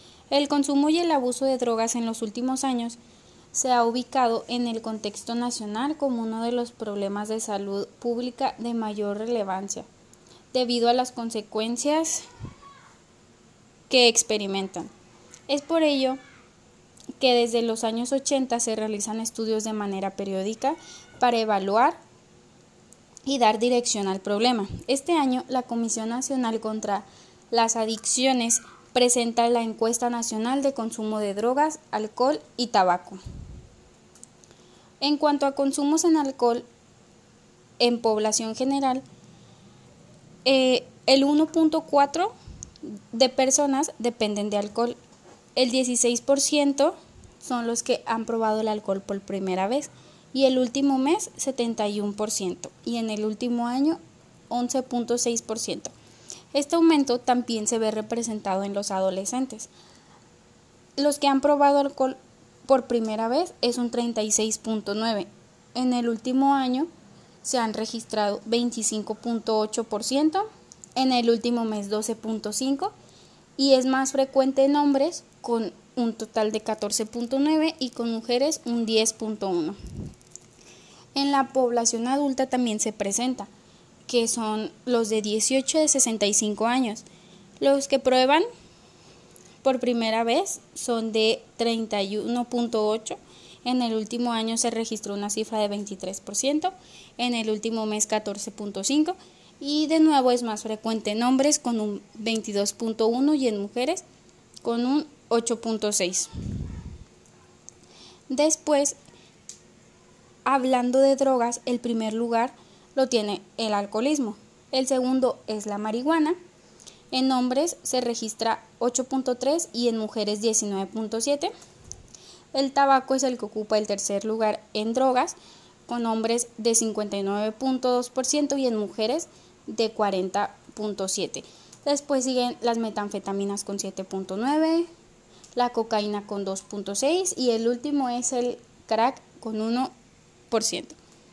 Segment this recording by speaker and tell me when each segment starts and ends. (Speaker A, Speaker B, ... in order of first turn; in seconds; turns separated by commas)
Speaker A: 0.3-3.0, Speaker A: 3.5-9.9, Speaker A: 10.5-12.3, Speaker A: 13.9-14.9, Speaker A: 15.5-16.2, Speaker A: 17.2-22.0, Speaker A: 23.2-33.2, Speaker A: 35.0-36.6, Speaker A: 37.8-39.0, Speaker A: 40.4-42.3, Speaker A: 42.8-45.0, Speaker A: 45.5-54.0, Speaker A: 54.5-55.9, Speaker A: 56.5-59.7, Speaker A: 61.0-66.9, Speaker A: 67.4-72.9, Speaker A: 73.6-79.8, Speaker A: 81.1-83.5, Speaker A: 84.1-87.0, Speaker A: 87.6-88.5, Speaker A: 89.6-104.0, Speaker A: 104.6-106.3, Speaker A: 108.3-109.0, Speaker A: 110.5-116.4, Speaker A: 117.1-121.5, Speaker A: 122.5-125.4, Speaker A: 125.9-134.9, Speaker A: 135.6-139.9, Speaker A: 140.5-140.9